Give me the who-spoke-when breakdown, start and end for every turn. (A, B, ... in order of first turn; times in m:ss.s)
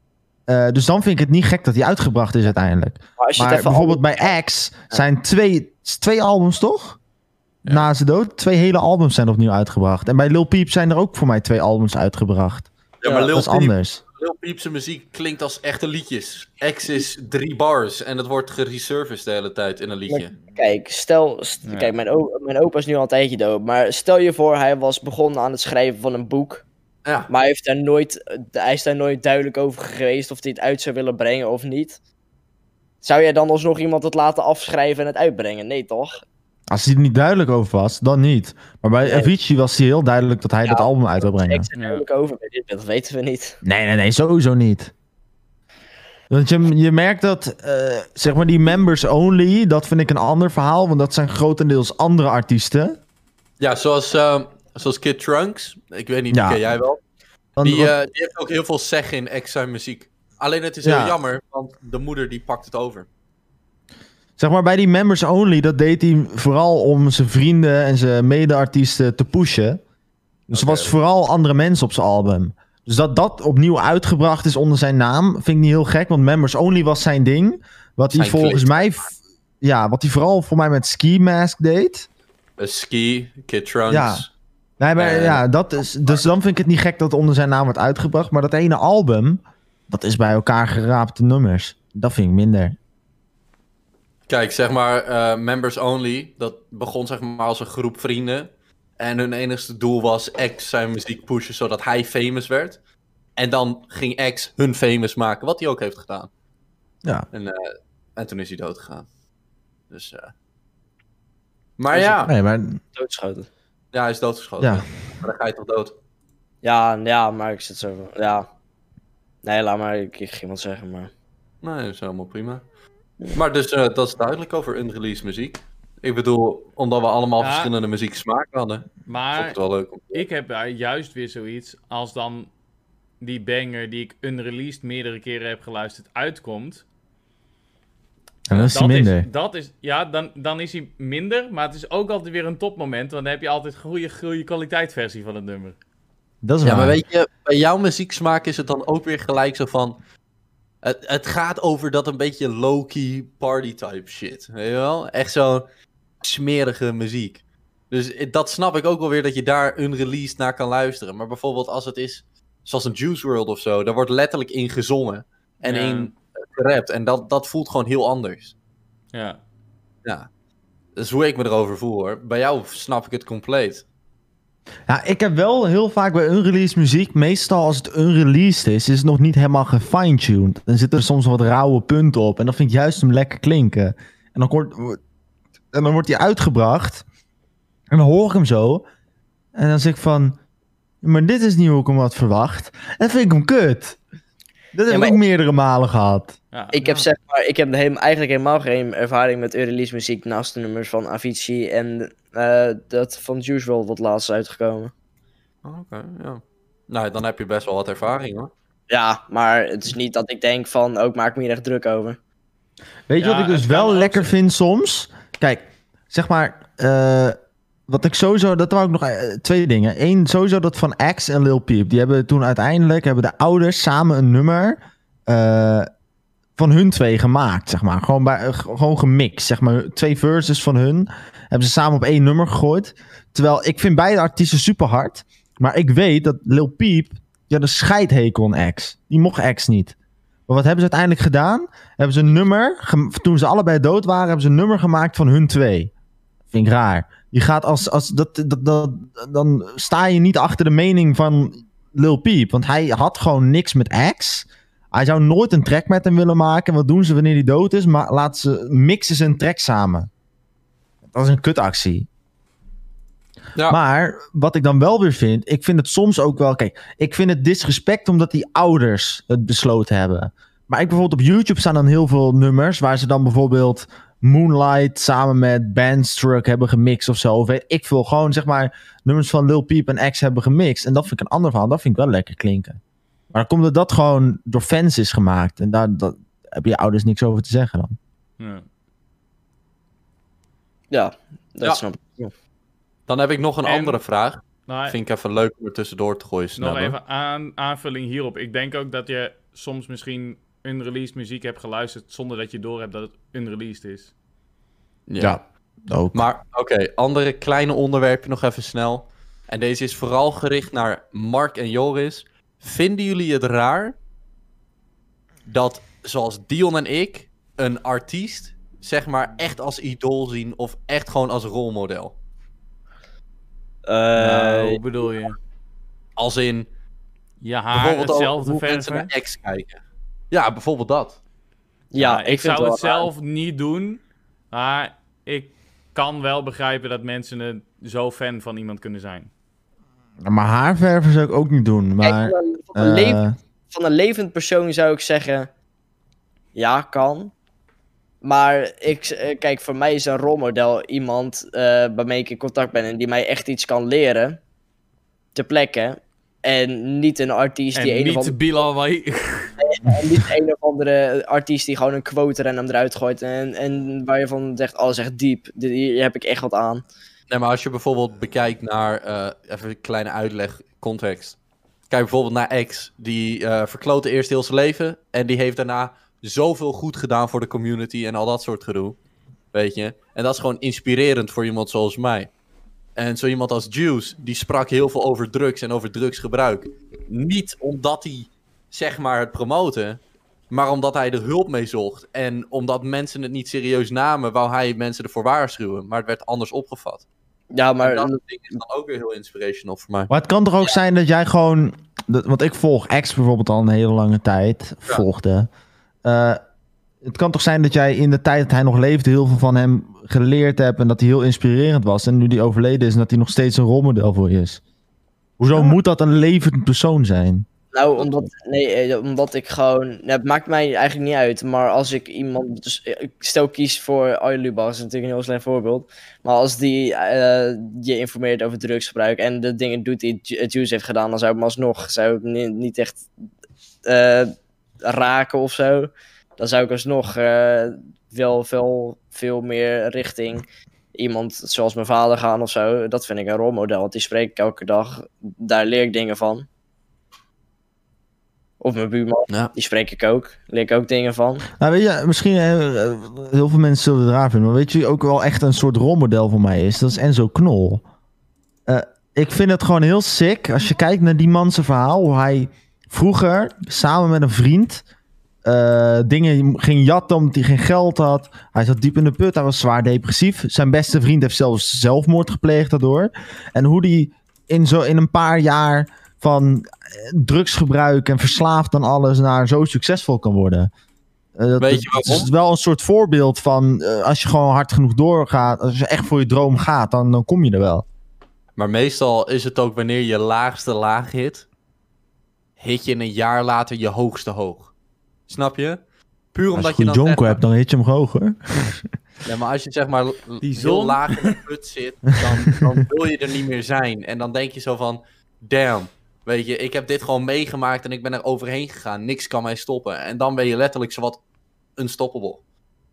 0:00.5-0:07.0 A
0:03.2-0:04.1 B
0:07.6-0:12.7 A
0:13.0-0:20.3 C
0:13.0-0:13.3 B
0:13.3-0:14.0 A
0:20.1-0:26.6 B
0:21.6-0:21.9 D
0:27.3-0:32.0 B
0:33.0-0:36.2 B
0:36.7-0:41.6 A
0:39.0-0:39.3 B
0:40.6-0:43.6 B
0:41.7-0:42.0 D
0:43.6-0:44.9 A
0:46.3-0:53.0 A
0:53.6-0:57.0 C
0:56.3-0:56.6 A
0:57.6-0:57.9 A
0:57.6-1:03.1 C
1:00.8-1:01.1 A
1:04.4-1:09.8 A
1:10.5-1:22.1 A
1:10.5-1:11.0 C
1:18.1-1:18.8 C
1:22.6-1:24.3 C
1:23.9-1:24.2 A
1:24.8-1:32.8 A
1:25.0-1:25.4 C
1:34.3-1:42.8 C
1:43.4-1:46.3 C
1:47.3-1:49.1 C
1:49.9-1:50.3 C
1:51.8-1:52.3 C
1:51.9-1:52.8 A
1:52.9-1:53.5 B
1:53.9-1:55.9 C
1:56.6-1:58.5 B
1:59.4-2:01.1 B
2:01.6-2:02.6 C
2:03.3-2:10.2 C
2:07.4-2:07.7 D
2:09.1-2:09.6 D
2:10.1-2:12.5 D
2:13.2-2:16.8 D
2:18.5-2:19.3 A
2:18.7-2:25.8 D
2:26.4-2:27.0 A
2:26.6-2:30.0 C
2:30.8-2:35.6 C
2:36.2-2:48.5 C
2:45.6-2:46.1 D
2:49.1-2:49.4 D
2:51.0-2:53.8 C
2:54.9-3:05.0 A
3:05.7-3:07.0 A
3:07.9-3:08.8 A
3:09.6-3:10.4 A
3:11.0-3:14.0 A
3:14.7-3:16.4 A
3:14.9-3:15.2 B
3:16.7-3:24.9 B
3:16.8-3:17.1 C
3:25.6-3:28.5 C
3:28.9-3:32.2 B
3:33.1-3:37.4 A
3:33.2-3:34.3 D
3:37.9-3:45.9 A
3:46.6-3:59.9 A
4:00.5-4:05.9 A
4:06.5-4:20.1 A
4:21.1-4:22.1 A
4:23.7-4:42.8 A
4:43.3-4:48.0 A
4:48.4-4:48.6 D
4:50.9-4:52.3 B
4:53.1-4:57.0 C
4:53.6-4:54.0 D
4:54.7-4:55.0 D
4:56.6-5:04.1 D
5:05.1-5:05.4 C
5:05.2-5:06.2 A
5:06.1-5:14.0 C
5:15.5-5:22.1 C
5:23.9-5:24.8 B
5:24.2-5:25.4 D
5:26.2-5:26.7 C
5:27.4-5:29.1 D
5:27.7-5:31.2 C
5:31.9-5:33.1 B
5:32.0-5:39.3 D
5:40.2-5:43.4 A
5:42.0-5:45.5 B
5:46.5-5:47.3 B
5:48.2-5:54.4 B
5:55.3-5:58.4 B
5:57.7-5:59.5 D
5:59.6-6:06.8 B
5:59.8-6:00.2 A
6:07.3-6:11.4 C
6:11.9-6:19.0 C
6:19.5-6:22.3 C
6:23.0-6:37.0 C
6:37.5-6:38.2 B
6:37.8-6:40.1 C
6:40.1-6:45.5 A
6:46.0-6:46.4 A
6:47.0-6:54.6 A
6:55.4-6:57.5 A
6:57.7-7:13.1 B
7:13.8-7:26.4 B
7:28.6-7:31.4 B
7:31.6-7:37.8 A
7:38.7-7:44.8 A
7:45.4-8:00.7 A
8:01.4-8:07.8 A
8:01.6-8:02.3 C
8:08.6-8:11.4 C
8:12.6-8:14.7 C
8:15.3-8:15.8 C
8:16.3-8:17.4 C
8:16.5-8:18.8 A
8:19.2-8:31.2 C
8:20.4-8:21.4 D
8:31.8-8:32.4 C